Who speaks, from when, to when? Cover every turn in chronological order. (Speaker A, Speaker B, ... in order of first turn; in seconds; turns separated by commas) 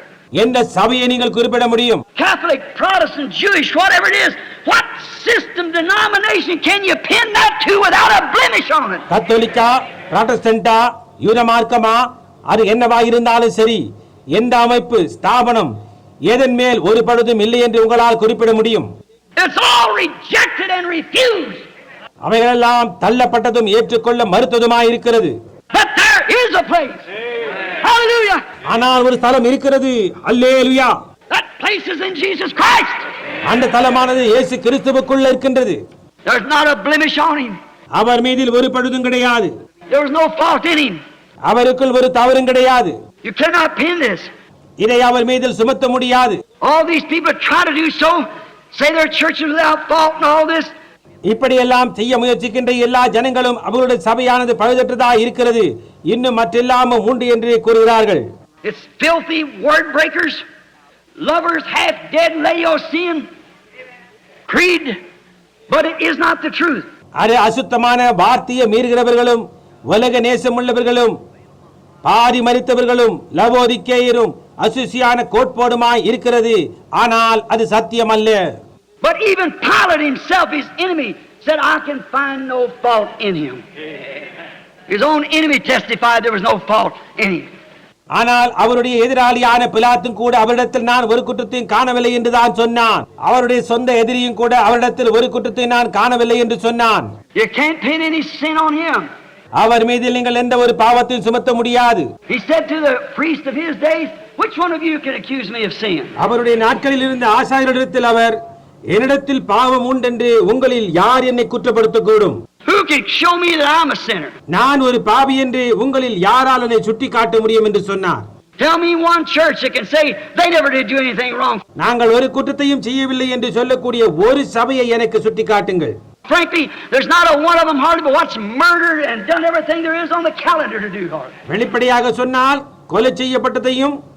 Speaker A: 0.4-2.0, Speaker B: 2.1-9.1, Speaker A: 9.1-13.8, Speaker A: 14.3-15.7, Speaker A: 16.3-18.9, Speaker B: 19.4-21.7, Speaker A: 22.2-25.3, Speaker B: 25.7-27.0, Speaker B: 27.8-28.4, Speaker A: 28.7-30.9, Speaker B: 31.3-33.0, Speaker A: 33.5-35.8, Speaker B: 36.3-37.6, Speaker A: 38.0-39.5, Speaker B: 39.9-41.0, Speaker A: 41.5-42.9, Speaker B: 43.2-44.3, Speaker A: 44.8-46.4, Speaker B: 46.6-50.7, Speaker A: 51.3-58.2, Speaker B: 58.6-60.4, Speaker B: 61.2-63.3, Speaker B: 64.5-65.0, Speaker B: 65.7-66.9, Speaker A: 67.2-71.1, Speaker A: 72.0-78.4, Speaker B: 79.0-83.6, Speaker B: 84.9-87.5, Speaker A: 88.1-97.1, Speaker B: 97.4-99.1, Speaker A: 99.6-102.1, Speaker B: 102.3-106.1, Speaker A: 106.2-108.4, Speaker A: 108.9-112.4, Speaker B: 112.7-114.3, Speaker A: 114.5-118.2, Speaker B: 118.6-121.6, Speaker A: 121.8-126.0, Speaker B: 126.3-131.3, Speaker A: 131.5-134.0